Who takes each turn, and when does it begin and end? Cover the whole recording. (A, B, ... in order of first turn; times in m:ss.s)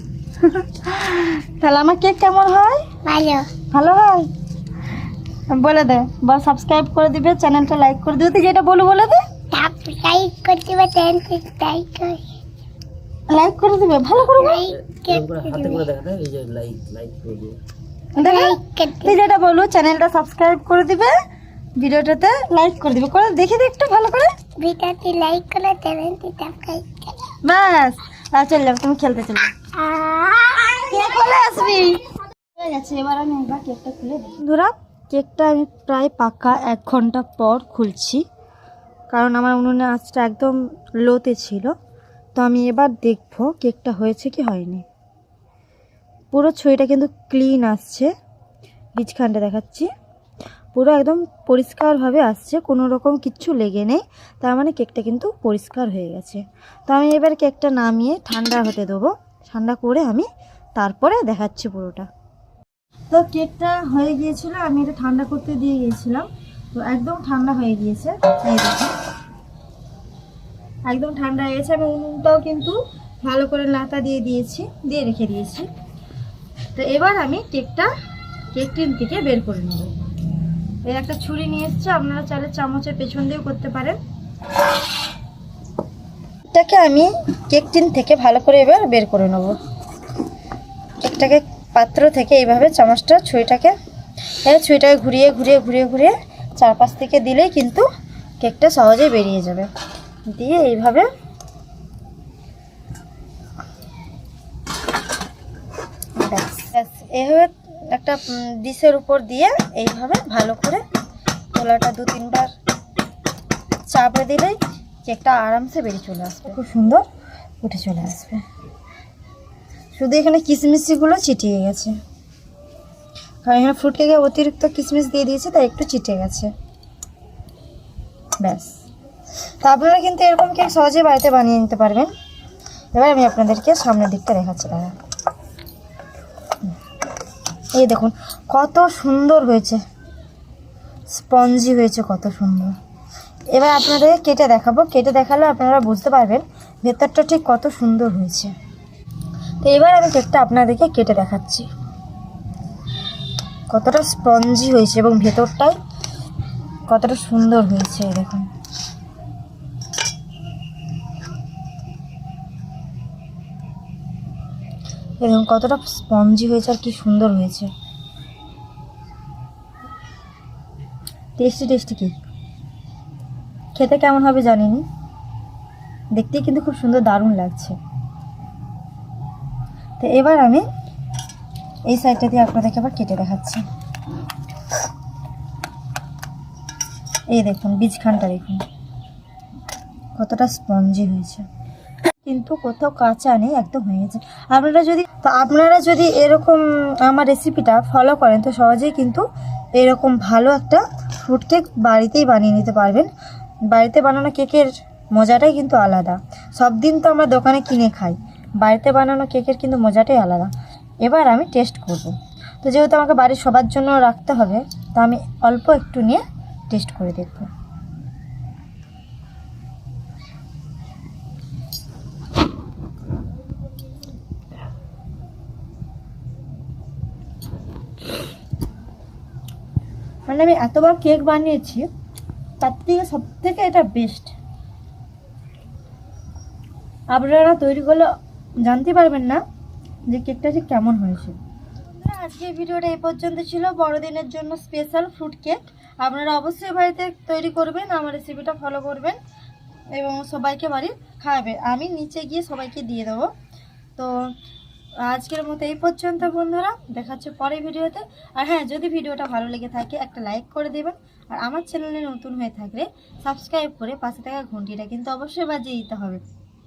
0:00.4-0:02.8 A
0:03.0-0:03.5 B
0:03.7-0:04.3 A
0:05.5-0:09.2 A
0:09.5-0:12.2 B
0:13.3-0:14.7 A
0:14.3-0:15.9 B
0:14.8-0:17.6 C
0:18.2-0:21.1 A
0:18.2-0:19.2 B
0:21.8-0:24.3 A
0:24.6-0:27.3 B
0:27.4-0:29.5 A
0:29.8-0:31.4 B
0:30.8-0:32.0 A
0:32.5-0:38.2 A
0:39.1-0:41.7 A
0:42.4-0:44.8 A
0:46.3-0:48.1 A
0:49.0-0:49.9 A
0:50.7-1:02.1 A
1:03.1-1:08.9 A
1:10.9-1:15.7 A
1:16.8-1:17.9 A
1:18.5-1:19.9 A
1:20.8-1:24.0 A
1:26.5-1:29.6 A
1:31.0-1:33.7 A
1:34.4-1:37.9 A
1:38.4-1:39.7 A
1:40.3-1:41.1 A
1:46.2-1:50.8 A
1:51.5-1:52.5 A
1:53.9-1:57.0 A
1:57.6-1:58.4 A
1:59.9-2:02.0 A
2:03.4-2:06.5 A
2:08.4-2:08.8 A
2:09.6-2:12.1 A
2:12.9-2:14.9 A
2:17.7-2:19.8 A
2:21.1-2:22.8 A
2:23.5-2:28.5 A
2:29.6-2:31.7 A
2:33.7-2:35.8 A
2:36.9-2:38.5 A
2:45.2-2:47.7 A
2:51.4-2:52.1 A
2:53.7-2:54.8 A
2:56.2-2:57.7 A
3:00.0-3:00.6 A
3:01.9-3:03.6 A
3:07.3-3:08.6 A
3:10.2-3:11.4 A
3:12.2-3:19.2 A
3:19.8-3:23.1 A
3:23.7-3:30.5 A
3:31.0-3:37.5 A
3:50.3-3:51.9 A
3:52.6-3:54.3 A
3:57.1-3:58.1 A
3:58.6-3:59.4 A
4:00.1-4:01.4 A
4:01.9-4:09.2 A
4:09.9-4:13.3 A
4:15.0-4:26.2 A